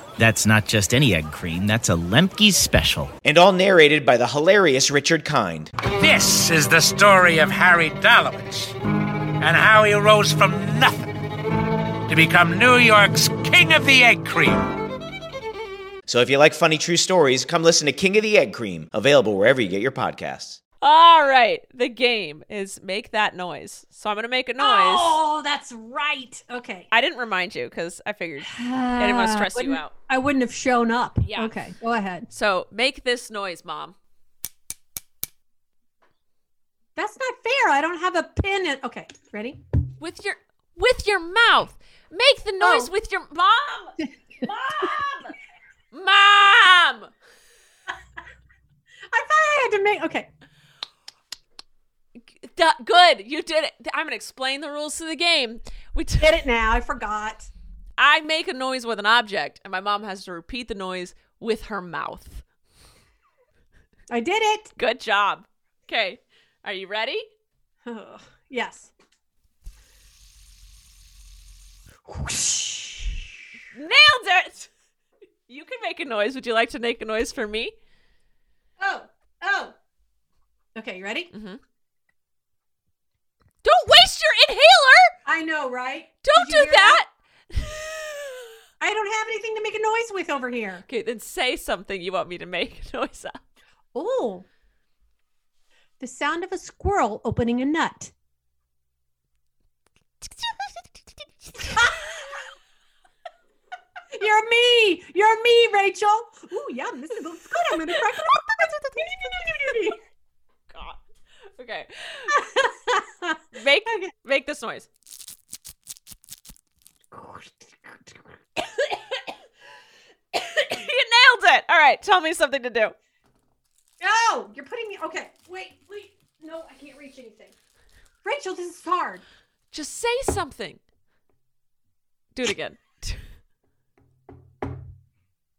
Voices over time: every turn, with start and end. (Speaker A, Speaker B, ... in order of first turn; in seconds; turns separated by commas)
Speaker A: 0.2-3.1, Speaker B: 3.2-5.7, Speaker C: 5.8-8.7, Speaker C: 9.4-11.1, Speaker C: 12.1-14.5, Speaker B: 16.1-20.6, Speaker D: 20.8-25.2, Speaker E: 24.6-26.9, Speaker D: 26.9-29.9, Speaker E: 28.4-32.3, Speaker D: 31.2-31.5, Speaker D: 32.3-34.0, Speaker E: 37.0-39.6, Speaker D: 40.0-45.4, Speaker E: 42.6-42.9, Speaker D: 45.9-47.1, Speaker E: 49.1-50.3, Speaker D: 52.4-56.4, Speaker E: 56.2-57.5, Speaker D: 58.0-62.4, Speaker E: 64.1-64.7, Speaker D: 64.8-67.3, Speaker E: 67.8-68.9, Speaker E: 72.1-73.2, Speaker D: 73.7-74.7, Speaker D: 75.5-77.7, Speaker E: 78.8-79.7, Speaker E: 80.8-81.3, Speaker D: 81.3-81.6, Speaker D: 83.6-85.1, Speaker E: 85.2-87.0, Speaker D: 86.2-88.4, Speaker E: 88.8-90.8, Speaker D: 90.9-93.4, Speaker E: 94.0-94.5, Speaker E: 96.0-98.1, Speaker E: 101.6-102.2, Speaker E: 104.1-110.0, Speaker D: 110.7-111.0, Speaker D: 111.6-112.4, Speaker E: 112.3-114.1, Speaker D: 113.5-114.9, Speaker E: 117.1-118.8, Speaker D: 120.3-123.0, Speaker E: 124.0-127.5, Speaker E: 128.2-129.2, Speaker D: 129.7-130.8, Speaker D: 132.3-133.2